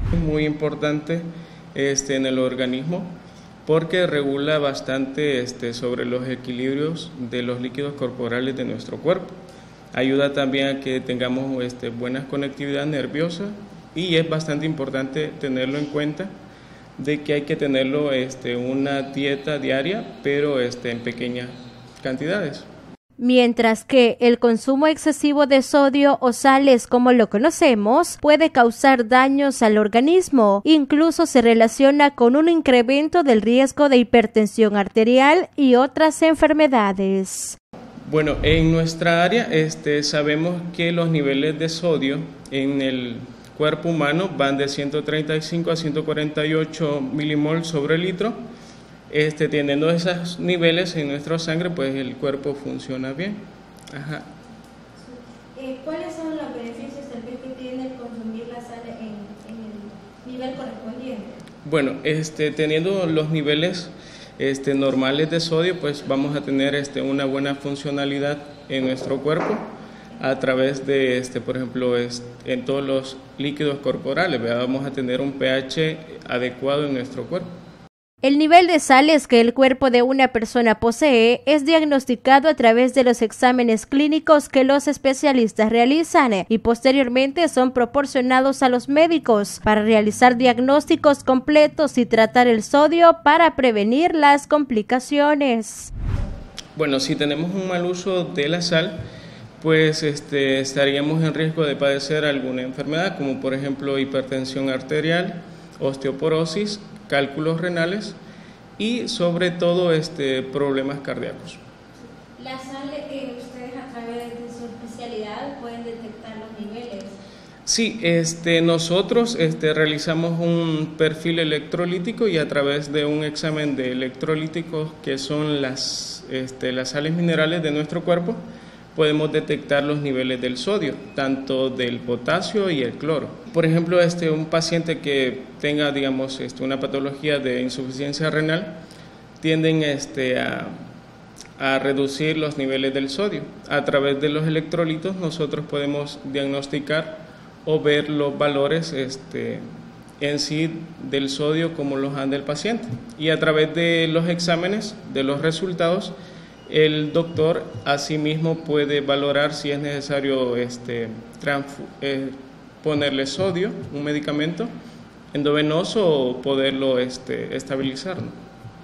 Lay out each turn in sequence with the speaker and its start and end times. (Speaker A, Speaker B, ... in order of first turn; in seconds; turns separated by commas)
Speaker A: 0.1-3.1, Speaker A: 3.7-9.3, Speaker A: 9.9-16.3, Speaker A: 17.0-22.7, Speaker B: 23.2-37.6, Speaker A: 38.1-48.4, Speaker A: 49.1-54.3, Speaker B: 55.5-61.3, Speaker A: 61.6-69.6, Speaker A: 70.2-77.5, Speaker B: 78.2-95.9, Speaker A: 96.8-99.0, Speaker A: 99.6-108.2, Speaker A: 108.8-111.6, Speaker B: 112.4-117.2, Speaker A: 117.7-128.4, Speaker A: 128.9-138.8, Speaker A: 139.4-140.8, Speaker A: 141.6-149.6, Speaker A: 150.2-156.2, Speaker A: 156.7-164.7, Speaker A: 165.3-168.4